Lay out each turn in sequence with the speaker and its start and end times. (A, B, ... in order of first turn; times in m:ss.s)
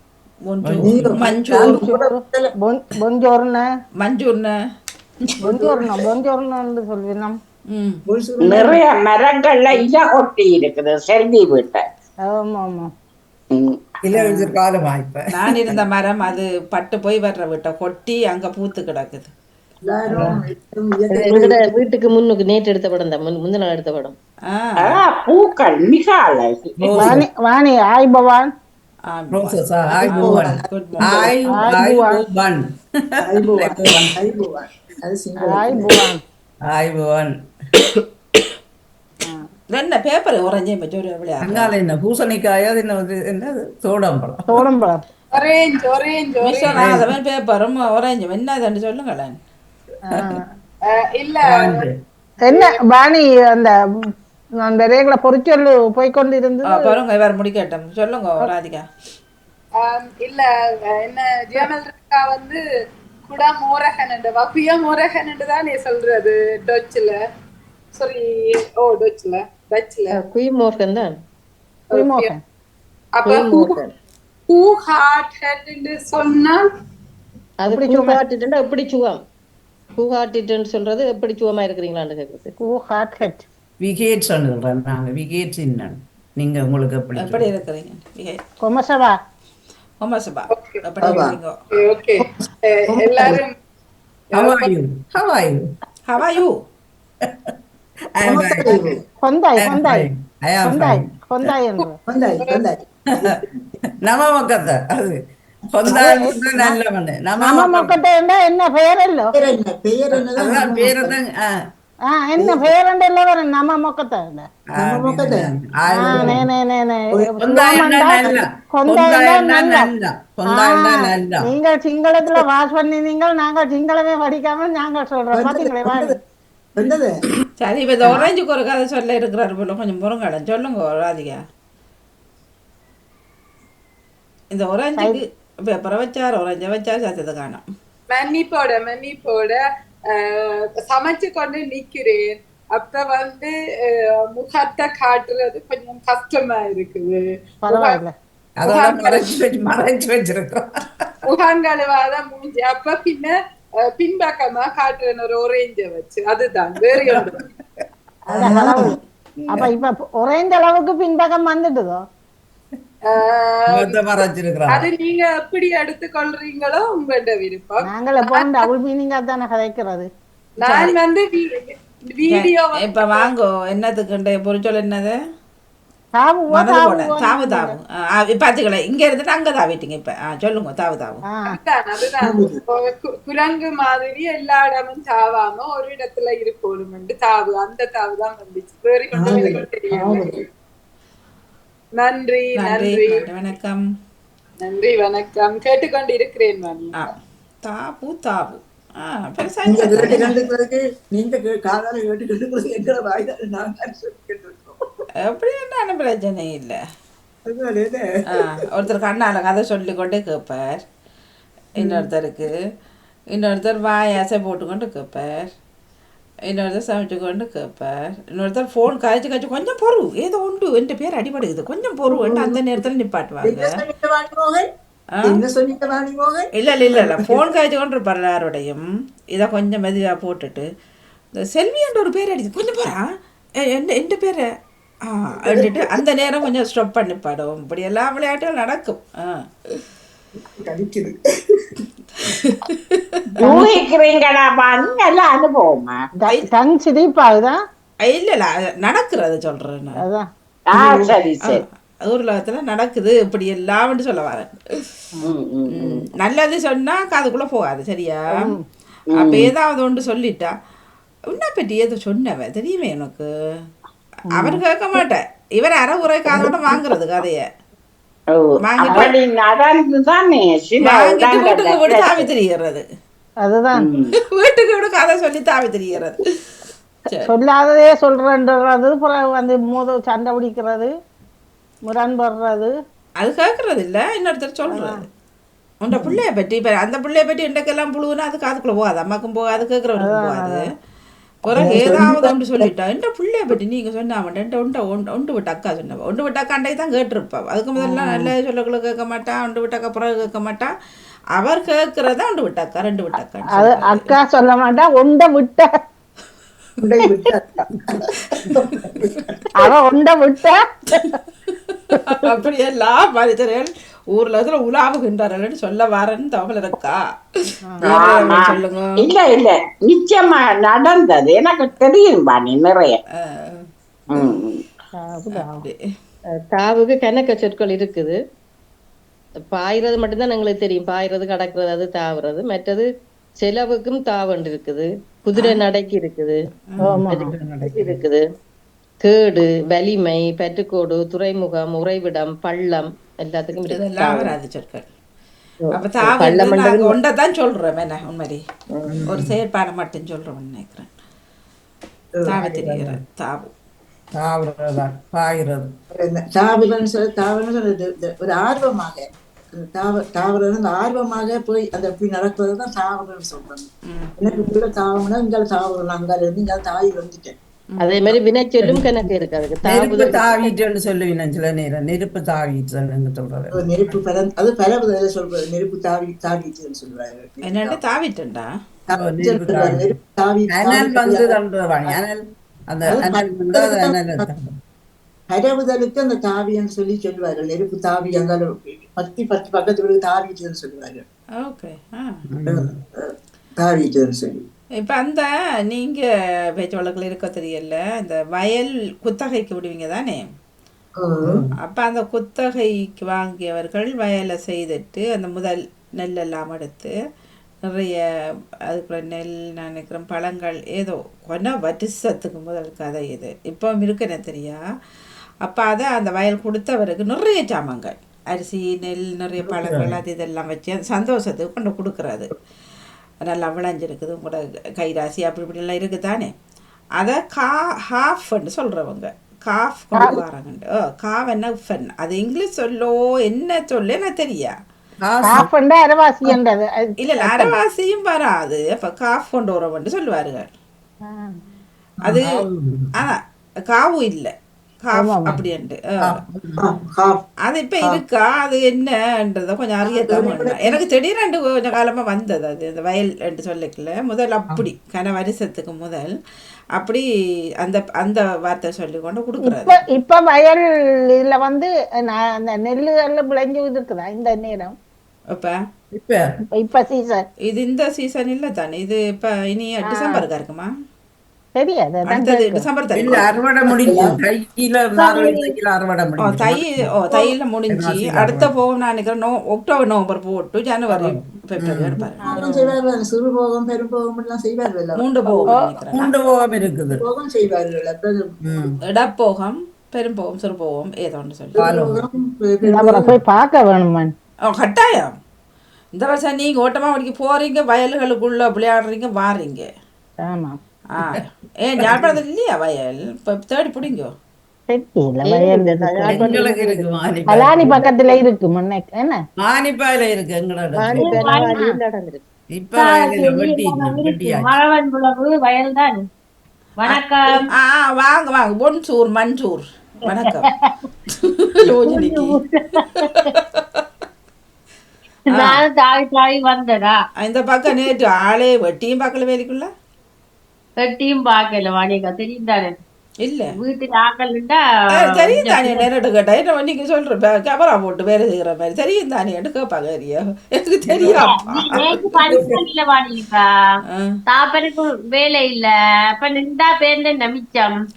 0:00.4-0:01.8 A
0:00.6-0:01.2 B
0:00.8-0:02.5 C
0:01.6-0:03.6 D
0:04.0-0:04.5 A
0:05.4-0:07.4 D
0:07.7-0:08.0 A
0:08.1-0:08.8 C
0:08.4-0:11.8 E
0:12.3-0:12.9 D
0:13.5-0:13.8 E
0:14.0-0:15.8 B
0:15.3-0:19.3 A
0:19.8-0:21.7 C
0:20.1-0:20.4 B
0:21.1-0:24.1 F
0:24.5-0:25.0 A
0:24.8-0:26.9 E
0:26.8-0:27.2 B
0:27.0-0:28.5 D
0:29.1-0:31.3 A
0:29.3-0:32.6 B
0:30.0-0:31.3 C
0:31.5-0:32.2 D
0:33.2-0:36.0 C
0:33.4-0:34.1 B
0:35.4-0:36.2 D
0:36.6-0:37.3 B
0:39.7-0:41.7 A
0:41.4-0:44.7 B
0:44.5-0:45.0 D
0:45.3-0:46.8 G
0:46.4-0:49.4 A
0:46.7-0:47.1 B
0:50.1-0:50.5 D
0:50.9-0:51.8 G
0:51.5-0:51.9 B
0:52.4-0:53.7 D
0:52.5-0:52.7 G
0:54.6-0:56.8 D
0:56.7-0:58.8 A
0:59.8-1:00.5 G
1:01.0-1:02.6 G
1:03.3-1:07.1 G
1:07.9-1:08.2 G
1:08.8-1:10.2 G
1:10.1-1:11.1 F
1:11.9-1:12.4 D
1:11.9-1:12.3 G
1:13.2-1:13.8 G
1:13.2-1:13.9 F
1:14.5-1:16.6 G
1:17.6-1:19.2 F
1:17.7-1:18.2 D
1:20.0-1:22.6 F
1:22.6-1:23.4 D
1:23.8-1:27.5 B
1:27.2-1:28.4 A
1:28.6-1:29.2 D
1:30.0-1:31.5 A
1:30.5-1:30.8 G
1:31.0-1:31.4 C
1:31.8-1:33.5 G
1:32.3-1:33.4 C
1:34.3-1:34.7 G
1:34.4-1:35.6 B
1:36.0-1:36.6 A
1:37.2-1:37.5 B
1:38.1-1:39.0 B
1:38.2-1:39.0 C
1:39.2-1:40.1 D
1:39.6-1:41.5 B
1:40.6-1:42.0 D
1:41.8-1:42.6 G
1:42.0-1:43.6 C
1:44.0-1:45.2 B
1:45.7-1:48.0 B
1:45.9-1:46.7 D
1:47.4-1:49.3 D
1:49.3-1:51.2 C
1:50.2-1:51.5 B
1:52.1-1:54.5 D
1:52.4-1:52.7 C
1:54.7-1:56.4 B
1:54.8-1:55.5 C
1:56.0-1:59.9 D
1:56.0-1:56.4 C
1:57.2-1:57.8 C
1:57.4-2:01.5 B
2:00.5-2:06.2 D
2:05.3-2:06.1 C
2:06.8-2:07.2 C
2:07.6-2:11.4 A
2:14.5-2:17.6 A
2:15.0-2:15.2 D
2:18.1-2:19.6 G
2:20.1-2:28.0 G
2:27.6-2:28.1 D
2:28.6-2:31.1 B
2:28.6-2:29.3 G
2:31.3-2:33.3 G
2:34.0-2:37.4 G
2:37.0-2:37.4 B
2:38.3-2:38.9 B
2:38.3-2:39.0 D
2:38.3-2:38.8 C
2:39.5-2:42.0 D
2:43.1-2:44.1 G
2:43.7-2:44.9 B
2:44.7-2:48.6 G
2:47.8-2:50.1 D
2:50.6-2:50.9 A
2:50.6-2:53.3 G
2:52.3-2:55.1 A
2:56.2-2:57.7 D
2:56.5-3:01.2 A
3:01.3-3:01.6 D
3:01.5-3:10.4 G
3:02.2-3:02.6 C
3:09.2-3:10.4 C
3:12.0-3:13.3 G
3:12.6-3:13.8 A
3:14.6-3:16.9 G
3:17.6-3:20.3 A
3:19.6-3:24.8 C
3:25.3-3:26.8 A
3:27.4-3:28.5 C
3:28.3-3:30.8 A
3:31.8-3:32.5 A
3:31.8-3:32.1 C
3:33.3-3:35.5 A
3:36.5-3:43.7 A
3:42.0-3:42.8 C
3:43.4-3:44.7 C
3:45.2-3:47.5 C
3:46.5-3:48.8 A
3:49.3-3:50.6 A
3:51.4-3:53.0 A
3:53.6-3:54.4 A
3:55.1-3:59.8 A
3:55.4-3:55.9 C
4:00.6-4:01.6 C
4:02.2-4:03.0 A
4:03.4-4:03.8 D
4:03.4-4:06.0 E
4:06.2-4:07.6 D
4:08.1-4:10.0 A
4:10.0-4:10.3 D
4:10.7-4:11.6 E
4:10.7-4:11.2 C
4:11.4-4:14.8 A
4:15.2-4:16.0 E
4:15.7-4:18.3 A
4:18.3-4:18.6 D
4:19.2-4:20.5 A
4:19.2-4:19.5 E
4:21.3-4:23.2 A
4:24.3-4:27.4 A
4:24.3-4:24.6 D
4:28.3-4:32.3 E
4:28.6-4:29.1 A
4:30.8-4:32.8 A
4:33.4-4:33.9 D
4:33.7-4:34.1 E
4:34.3-4:36.3 A
4:37.2-4:40.9 D
4:41.9-4:42.7 D
4:43.2-4:45.0 A
4:44.7-4:45.0 D
4:45.8-4:50.6 A
4:45.9-4:46.2 C
4:50.0-4:50.6 D
4:51.4-5:00.7 A
4:51.5-4:52.7 C
4:57.8-4:58.3 D
5:01.4-5:04.1 A
5:03.5-5:05.7 D
5:06.8-5:09.4 C
5:09.6-5:11.2 D
5:11.5-5:17.0 A
5:11.9-5:12.3 D
5:17.8-5:19.0 A
5:18.0-5:23.0 E
5:23.2-5:23.6 A
5:24.1-5:24.6 E
5:25.0-5:25.7 D
5:25.3-5:25.8 A
5:26.5-5:28.2 F
5:29.5-5:32.8 F
5:33.4-5:36.4 F
5:35.3-5:35.6 A
5:36.8-5:37.3 D
5:36.9-5:38.0 B
5:37.1-5:38.2 F
5:39.0-5:44.3 F
5:43.7-5:44.8 A
5:45.6-5:47.0 F
5:45.7-5:48.4 A
5:48.7-5:49.2 C
5:48.8-5:49.3 B
5:49.1-5:50.9 A
5:52.2-5:52.9 C
5:52.2-5:53.5 A
5:54.2-5:55.7 B
5:55.9-5:59.0 C
5:59.6-6:07.4 C
6:03.9-6:04.5 A
6:07.8-6:08.2 A
6:07.8-6:10.5 F
6:08.6-6:08.9 B
6:09.6-6:14.0 B
6:13.5-6:17.8 C
6:17.4-6:18.5 A
6:18.9-6:21.3 C
6:18.9-6:19.9 B
6:20.5-6:22.2 B
6:22.7-6:24.5 B
6:22.9-6:24.2 C
6:25.3-6:31.0 C
6:31.4-6:32.2 A
6:32.3-6:32.8 B
6:32.5-6:34.4 C
6:34.8-6:36.0 A
6:36.6-6:40.2 A
6:41.0-6:41.4 C
6:41.2-6:41.5 B
6:41.6-6:46.9 A
6:47.7-6:48.0 A
6:48.7-6:54.6 A
6:55.4-7:02.3 A
6:59.5-6:59.8 C
7:03.2-7:06.3 A
7:07.0-7:14.5 A
7:15.0-7:15.5 B
7:15.2-7:17.5 D
7:17.0-7:20.5 A
7:21.0-7:21.4 D
7:22.0-7:22.4 A
7:22.1-7:22.9 B
7:22.9-7:24.3 A
7:24.8-7:26.0 A
7:24.9-7:25.4 D
7:26.1-7:26.8 B
7:26.6-7:27.2 C
7:27.4-7:36.1 A
7:29.8-7:30.8 C
7:36.8-7:37.0 A
7:37.6-7:39.8 A
7:39.4-7:44.7 D
7:45.9-7:46.2 B
7:46.6-7:47.2 D
7:47.5-7:50.7 A
7:49.9-7:50.2 D
7:51.6-7:52.6 D
7:52.1-7:53.2 A
7:52.9-7:56.8 B
7:53.8-7:54.2 C
7:55.0-7:55.5 H
7:56.2-8:02.2 A
7:57.7-7:58.5 B
8:00.9-8:02.0 B
8:02.2-8:02.6 D
8:02.2-8:05.5 C
8:05.0-8:06.1 A
8:05.5-8:05.8 D
8:05.9-8:07.0 B
8:07.0-8:08.7 C
8:08.4-8:08.8 B
8:08.9-8:11.6 A
8:11.5-8:13.1 C
8:11.6-8:12.0 B
8:12.6-8:14.1 D
8:14.5-8:15.1 A
8:15.9-8:19.7 A
8:20.2-8:20.6 D
8:21.0-8:24.1 A
8:21.8-8:22.2 B
8:24.7-8:26.5 D
8:25.2-8:26.9 F
8:26.0-8:27.9 B
8:27.3-8:29.2 D
8:27.5-8:28.2 F
8:29.4-8:31.1 B
8:30.7-8:32.2 F
8:30.9-8:31.5 H
8:32.6-8:34.5 B
8:32.8-8:36.0 H
8:36.8-8:37.5 H
8:36.8-8:40.5 A
8:40.1-8:40.7 H
8:41.7-8:43.3 H
8:41.7-8:42.2 B
8:41.9-8:42.2 A
8:42.9-8:43.8 A
8:45.3-8:47.0 H
8:45.3-8:45.6 A
8:47.2-8:49.7 A
8:50.8-8:52.7 H
8:53.2-8:53.5 A
8:53.6-8:54.6 H
8:54.9-9:02.2 A
8:55.2-8:55.8 H
9:00.9-9:01.2 B
9:01.1-9:03.4 H
9:02.3-9:02.5 C
9:03.9-9:04.2 A
9:04.3-9:07.7 H